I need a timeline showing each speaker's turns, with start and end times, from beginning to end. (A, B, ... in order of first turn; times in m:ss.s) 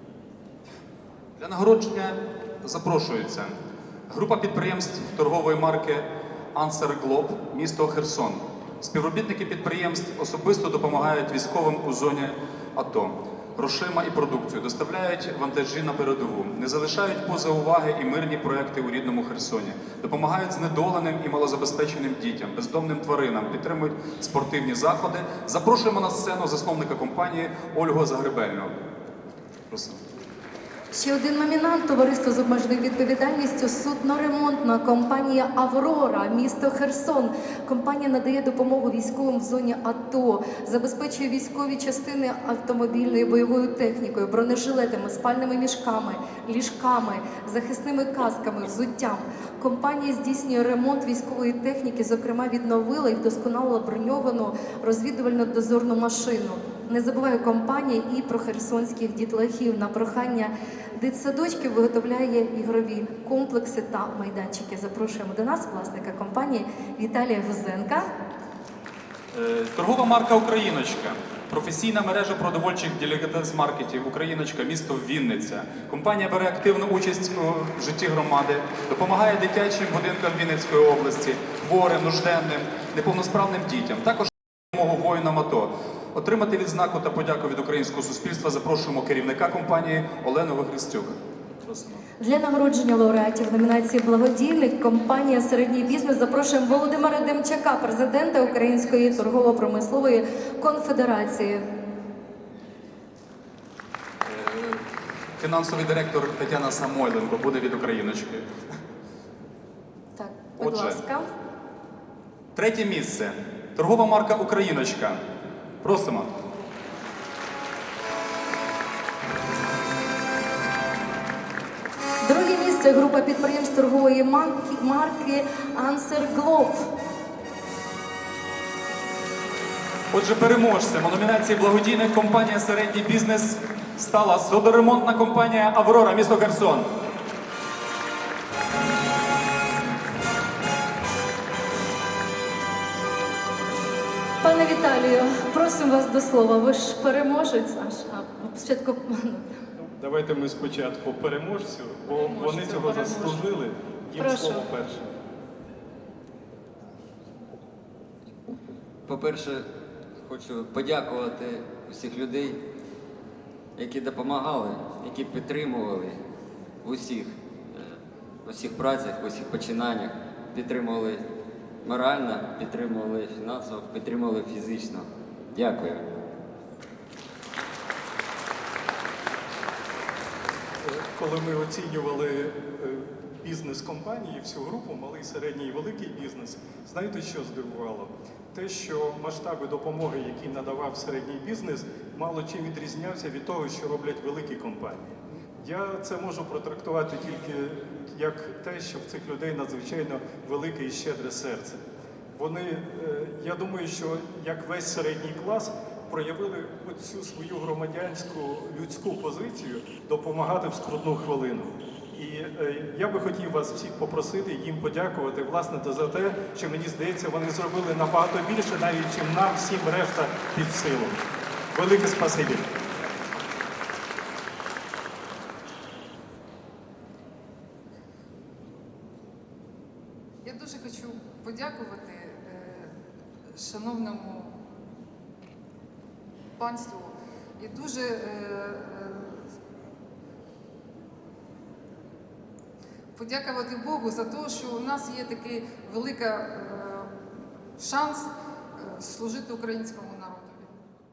0:01.4-0:03.5 A
0:04.1-0:28.7 A
0:29.7-0:30.0 A
0:30.9-1:08.1 B
1:09.3-1:32.0 A
1:32.2-1:41.6 B
1:44.2-1:44.8 A
1:45.4-1:48.5 A
1:50.2-1:51.3 B
1:50.6-1:51.0 A
1:52.6-1:55.2 A
1:55.8-1:56.3 A
2:02.2-2:06.9 B
2:10.1-2:16.9 A
2:24.4-2:29.6 B
2:30.0-2:35.1 C
2:32.1-2:33.4 B
2:34.2-2:34.7 B
2:39.1-2:39.7 D
2:40.2-2:42.6 D
2:43.8-2:46.2 D
2:46.8-2:51.2 D
2:51.8-2:56.0 D
3:00.8-3:21.8 C
3:22.4-3:41.2 C
3:41.7-3:42.7 C
3:50.4-3:53.0 E
3:53.5-3:54.6 E
3:56.6-3:59.5 E
4:03.2-4:07.2 E
4:07.8-4:10.7 E